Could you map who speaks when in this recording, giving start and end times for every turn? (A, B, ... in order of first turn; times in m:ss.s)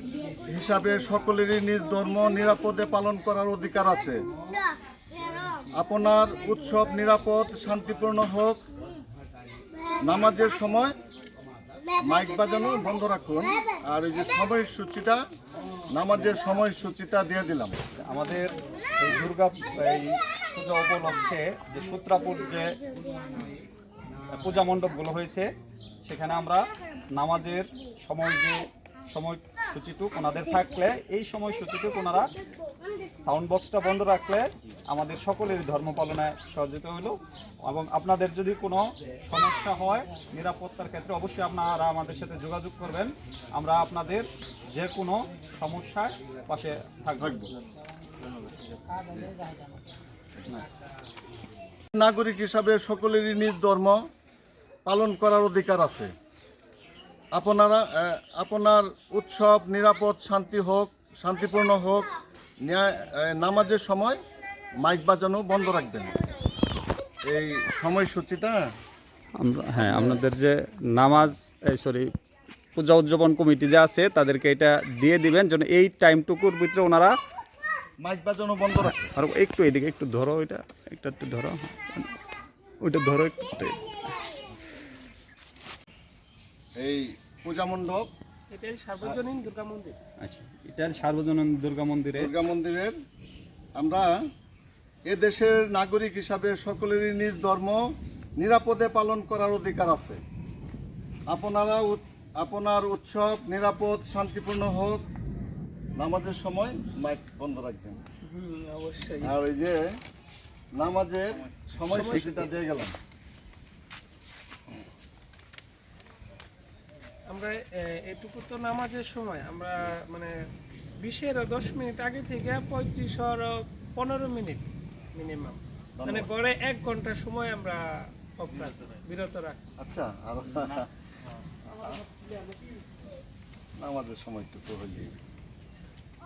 0:00.5-0:04.2 A
0:05.7-0:08.6 A
0:10.0-0:11.0 A
0:12.0-0:15.2 A
0:15.9-0:17.8 A
0:18.0-0:22.8 B
0:24.3-0:25.5 B
0:26.0-0:32.3 B
0:33.2-0:47.4 B
0:47.2-0:47.5 A
0:48.9-0:49.4 A
0:52.0-0:54.0 A
0:54.8-0:56.1 A
0:57.3-1:02.1 A
1:02.6-1:04.2 A
1:04.8-1:06.2 A
1:07.3-1:08.6 A
1:09.4-1:12.1 B
1:09.8-1:10.2 A
1:12.8-1:17.1 B
1:18.0-1:19.1 A
1:18.8-1:22.1 B
1:22.8-1:23.8 B
1:26.8-1:28.0 A
1:28.5-1:30.0 C
1:30.2-1:32.3 B
1:32.2-1:32.9 A
1:33.8-1:34.1 A
1:35.1-1:37.8 A
1:38.4-1:40.2 A
1:41.3-1:45.0 A
1:46.0-1:48.0 A
1:48.2-1:49.3 C
1:49.2-1:49.8 A
1:50.8-1:52.9 A
1:51.9-1:52.5 C
1:57.3-2:00.3 C
2:01.0-2:09.6 C
2:06.0-2:06.3 A
2:09.8-2:10.9 A
2:11.8-2:12.0 A
2:13.8-2:15.1 A